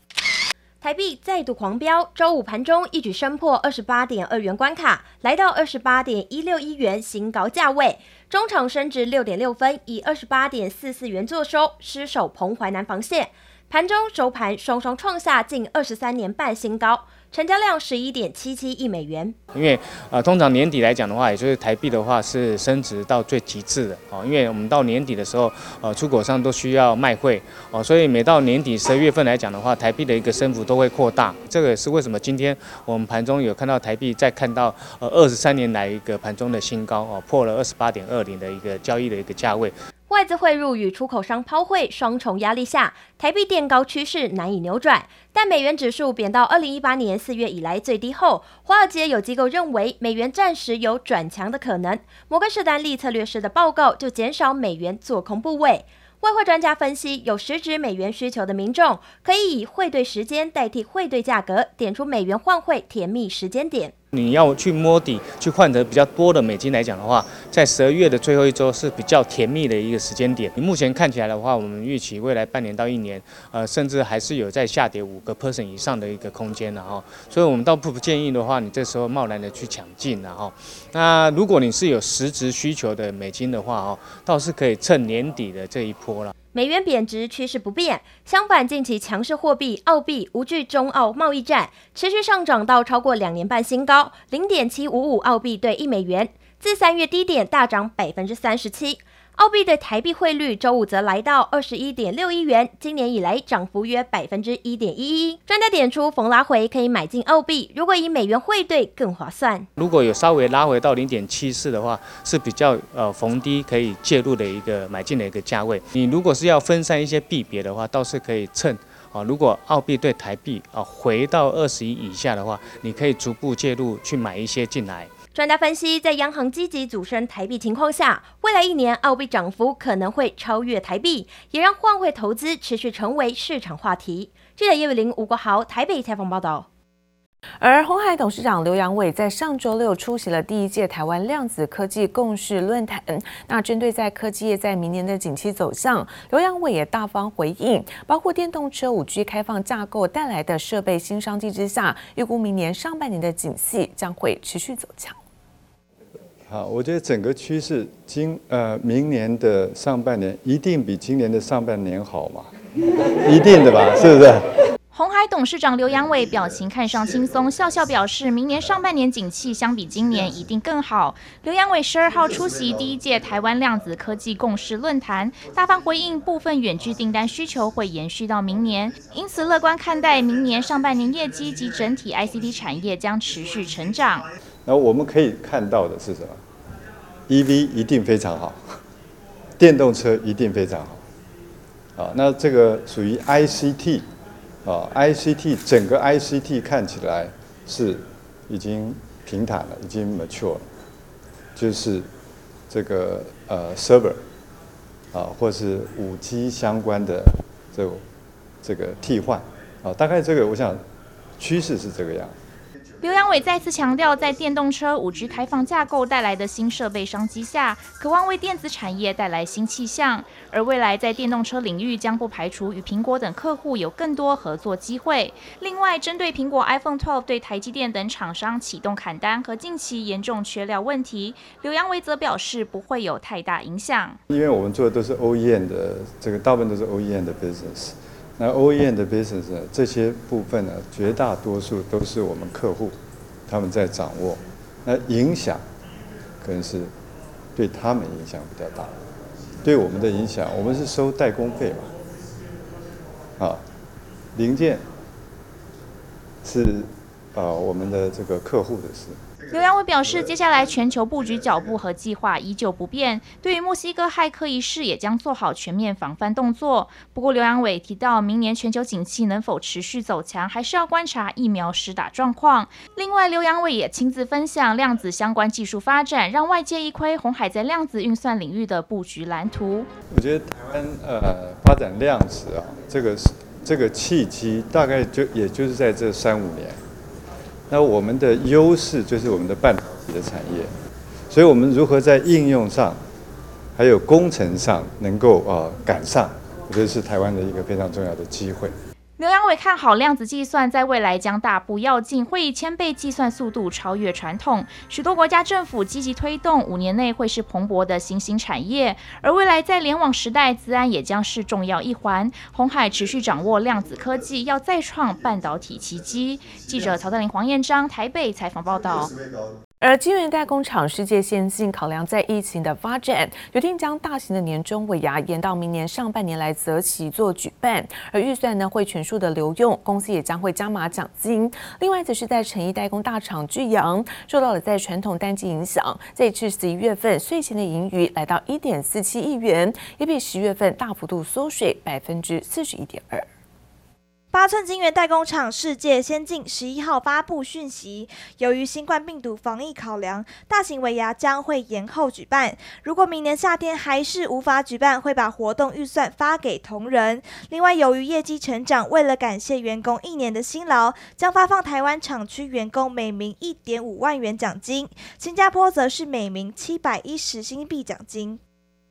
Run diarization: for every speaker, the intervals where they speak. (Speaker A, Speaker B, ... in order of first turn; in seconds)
Speaker A: 0.8-19.4, 40.1-63.9, 86.5-109.7, 125.3-136.7
Speaker B: 19.5-39.8, 64.1-86.3, 109.8-125.1
Speaker C: 137.6-155.2, 319.8-343.3
Speaker D: 156.5-162.5, 163.2-164.5, 184.7-186.4, 187.3-188.6, 189.6-191.0, 192.0-194.1, 194.7-200.7, 201.6-202.1, 202.7-204.2, 205.1-208.0, 208.6-210.8, 211.4-212.3, 234.3-243.0, 243.5-245.6, 246.4-246.9, 247.6-248.9, 249.6-251.9, 254.4-254.9, 256.4-259.2, 280.1-286.8, 287.7-290.7, 291.3-293.0, 293.8-298.7
Speaker E: 164.9-184.3, 213.0-234.2, 259.5-279.9, 299.2-319.1
Speaker F: 344.3-368.4